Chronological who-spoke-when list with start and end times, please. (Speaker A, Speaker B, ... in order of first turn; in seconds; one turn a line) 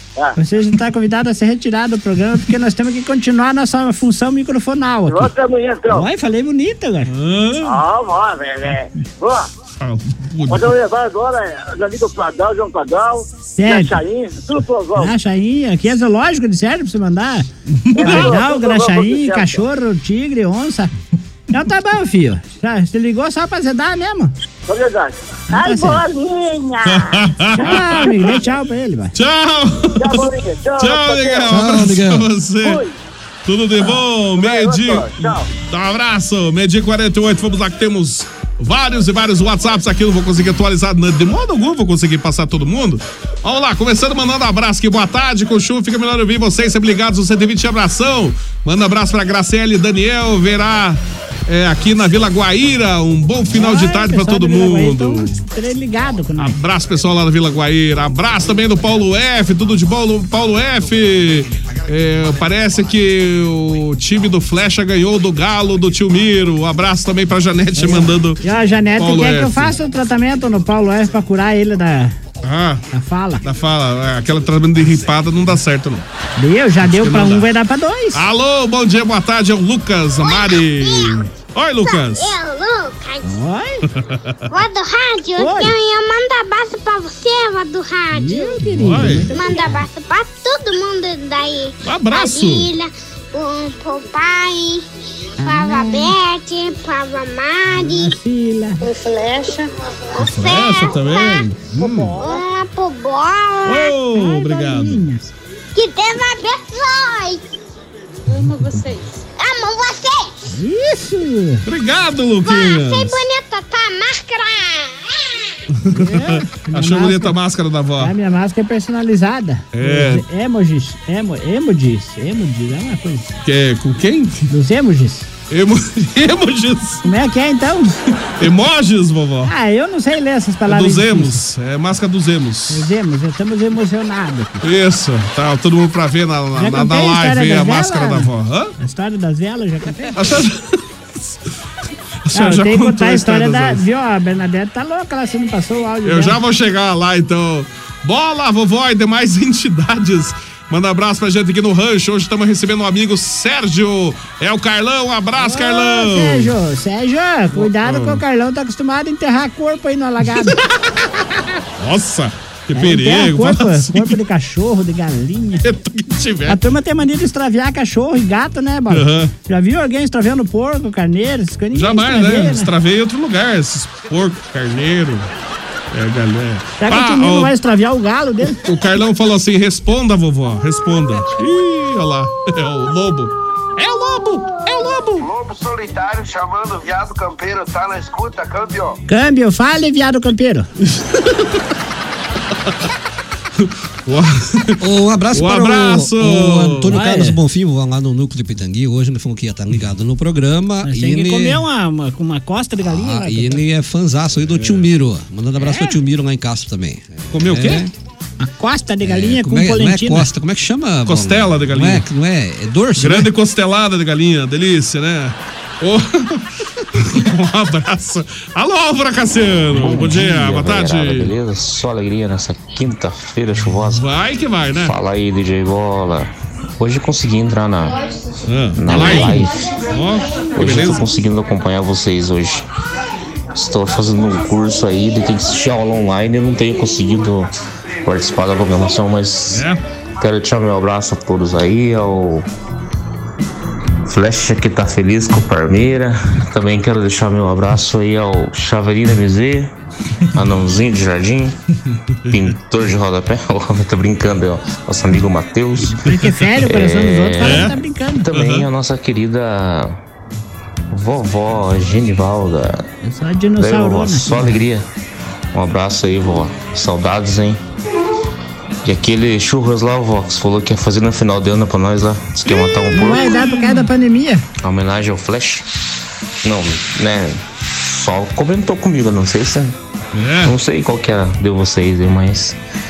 Speaker A: 0.4-5.3
Speaker B: 5.1-6.1
Speaker A: 5.9-7.1
Speaker C: 7.1-7.8
Speaker B: 7.6-9.5
Speaker C: 9.8-10.7
Speaker B: 10.5-15.1
Speaker A: 13.6-14.0
Speaker A: 14.9-17.5
Speaker C: 17.9-18.4
Speaker B: 17.9-19.6
Speaker A: 18.0-20.9
Speaker A: 21.5-24.3
Speaker B: 24.7-27.1
Speaker A: 25.5-26.0
Speaker C: 26.8-28.3
Speaker A: 27.6-29.1
Speaker C: 29.1-32.8
Speaker B: 30.0-31.5
Speaker D: 31.5-32.3
Speaker B: 32.6-32.9
Speaker C: 33.4-55.3
Speaker B: 34.4-35.5
Speaker A: 53.5-56.6
Speaker C: 56.4-68.4
Speaker A: 67.8-72.2
Speaker C: 69.0-69.7
Speaker C: 72.4-72.8
Speaker A: 72.9-73.4
Speaker C: 73.4-76.0
Speaker A: 76.4-78.2
Speaker C: 76.8-77.5
Speaker C: 78.1-82.3
Speaker E: 80.2-81.2
Speaker E: 81.8-83.3
Speaker A: 83.2-83.8
Speaker C: 83.9-84.5
Speaker E: 84.5-88.7
Speaker A: 85.4-85.7
Speaker A: 88.1-89.7
Speaker C: 88.7-89.3
Speaker E: 89.3-94.8
Speaker C: 91.8-92.7
Speaker A: 95.4-96.1
Speaker E: 95.4-98.2
Speaker A: 97.8-98.8
Speaker E: 100.1-101.5
Speaker C: 100.2-102.1
Speaker E: 102.1-103.9
Speaker C: 103.6-105.0
Speaker A: 104.1-105.3
Speaker E: 105.7-107.4
Speaker E: 109.4-110.3
Speaker A: 110.5-111.7
Speaker C: 111.7-113.2
Speaker E: 112.4-115.4
Speaker C: 115.7-118.1
Speaker A: 115.9-117.4
Speaker A: 118.0-123.3
Speaker C: 119.7-120.2
Speaker C: 123.4-124.5
Speaker A: 124.5-125.3
Speaker C: 125.5-127.0
Speaker A: 127.0-127.9
Speaker C: 128.4-129.5
Speaker A: 129.4-131.4
Speaker C: 130.7-132.9
Speaker A: 132.7-134.6
Speaker C: 134.6-138.7
Speaker A: 136.6-140.2
Speaker C: 140.1-140.8
Speaker C: 142.2-143.8
Speaker A: 142.3-146.4
Speaker C: 146.0-156.5
Speaker A: 155.3-160.6
Speaker C: 157.5-158.2
Speaker C: 161.8-164.2
Speaker A: 162.7-165.6
Speaker C: 165.6-166.6
Speaker A: 166.5-172.7
Speaker C: 168.9-169.3
Speaker C: 171.7-175.3
Speaker C: 175.9-177.5
Speaker A: 176.8-178.6
Speaker C: 178.6-185.3
Speaker F: 185.2-189.0
Speaker A: 189.1-190.7
Speaker C: 190.8-191.5
Speaker C: 193.6-194.8
Speaker D: 194.8-201.6
Speaker C: 195.3-196.9
Speaker A: 196.9-197.4
Speaker A: 200.8-203.6
Speaker D: 202.8-207.9
Speaker C: 204.6-204.8
Speaker A: 205.6-205.9
Speaker C: 207.3-207.9
Speaker A: 208.4-210.3
Speaker D: 209.0-213.3
Speaker C: 211.1-212.1
Speaker C: 213.0-221.3
Speaker G: 219.7-224.0
Speaker C: 223.9-224.9
Speaker G: 224.8-228.0
Speaker C: 228.4-231.0
Speaker G: 228.7-229.6
Speaker G: 230.5-232.7
Speaker G: 233.5-237.5
Speaker G: 238.0-242.4
Speaker C: 239.5-239.8
Speaker G: 244.1-249.7
Speaker G: 250.3-251.6
Speaker G: 252.3-256.0
Speaker A: 255.9-258.3
Speaker C: 256.0-256.3
Speaker G: 256.5-260.0
Speaker C: 257.4-257.8
Speaker C: 258.3-258.7
Speaker G: 260.9-262.9
Speaker A: 263.0-264.6
Speaker G: 263.6-264.8
Speaker G: 265.5-267.6
Speaker G: 268.8-273.5
Speaker C: 272.4-273.8
Speaker A: 272.9-274.4
Speaker G: 274.6-275.6
Speaker G: 276.4-279.8
Speaker C: 280.1-280.5
Speaker G: 280.4-282.6